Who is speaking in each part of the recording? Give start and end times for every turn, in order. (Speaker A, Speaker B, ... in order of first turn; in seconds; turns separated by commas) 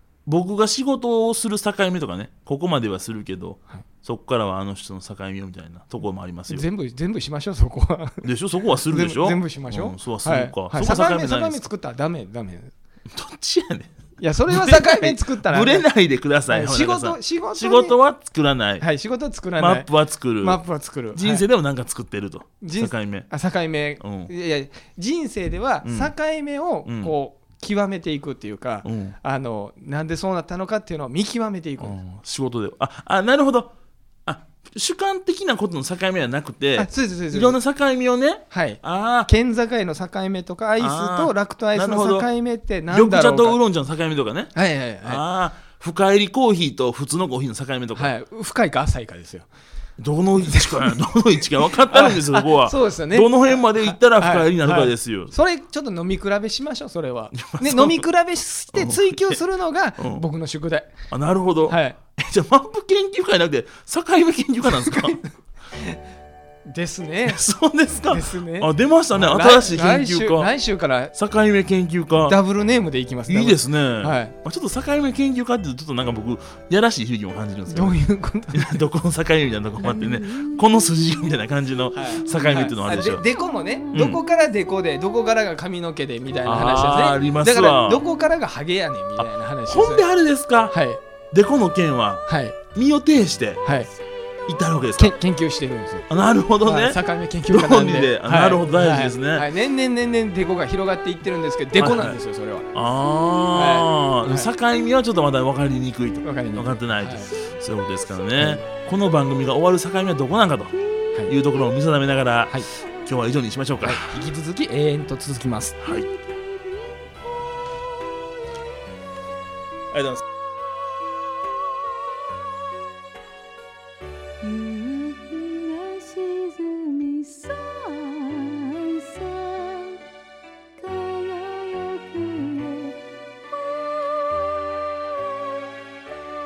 Speaker A: 0.2-6.6, Speaker B: 6.5-8.2, Speaker A: 8.2-11.6, Speaker B: 8.9-12.7, Speaker A: 13.1-13.9, Speaker B: 14.2-15.9, Speaker A: 14.5-18.9, Speaker B: 16.5-17.9, Speaker B: 18.8-19.9, Speaker A: 19.6-20.6, Speaker B: 20.4-21.4, Speaker A: 21.1-23.3, Speaker B: 22.6-32.0, Speaker A: 24.0-24.3, Speaker A: 25.8-26.1, Speaker A: 26.9-27.1, Speaker A: 28.8-29.1, Speaker A: 31.8-33.7, Speaker A: 34.2-39.3, Speaker B: 36.8-37.6, Speaker B: 38.5-43.6, Speaker A: 40.8-42.3, Speaker A: 42.9-48.1, Speaker B: 44.5-45.2, Speaker B: 47.9-49.5, Speaker A: 50.0-55.3, Speaker B: 50.4-51.0, Speaker B: 51.7-61.0, Speaker A: 57.3-58.0, Speaker A: 58.7-59.4, Speaker A: 60.0-60.2, Speaker A: 61.1-65.2, Speaker B: 61.7-62.0, Speaker B: 64.7-66.0, Speaker B: 66.7-67.4, Speaker A: 67.2-70.5, Speaker B: 68.1-71.1, Speaker A: 71.1-72.3, Speaker B: 72.2-74.3, Speaker A: 73.3-78.0, Speaker B: 77.7-78.8, Speaker A: 78.5-83.2, Speaker B: 81.9-90.0, Speaker A: 83.9-84.2, Speaker A: 86.4-88.0, Speaker A: 89.2-90.7, Speaker B: 90.7-91.0, Speaker A: 91.3-92.2, Speaker B: 92.2-92.6, Speaker A: 92.7-93.6, Speaker B: 93.6-93.9, Speaker A: 94.5-95.1, Speaker B: 95.0-96.1, Speaker A: 96.1-99.5, Speaker B: 96.6-102.7, Speaker A: 101.8-102.2, Speaker A: 102.7-110.7, Speaker B: 103.5-104.5, Speaker B: 106.2-107.4, Speaker A: 111.2-114.1, Speaker B: 113.8-116.0, Speaker A: 115.8-116.1, Speaker A: 119.9-120.2, Speaker C: 124.4-130.0, Speaker C: 130.8-132.9, Speaker C: 133.8-134.4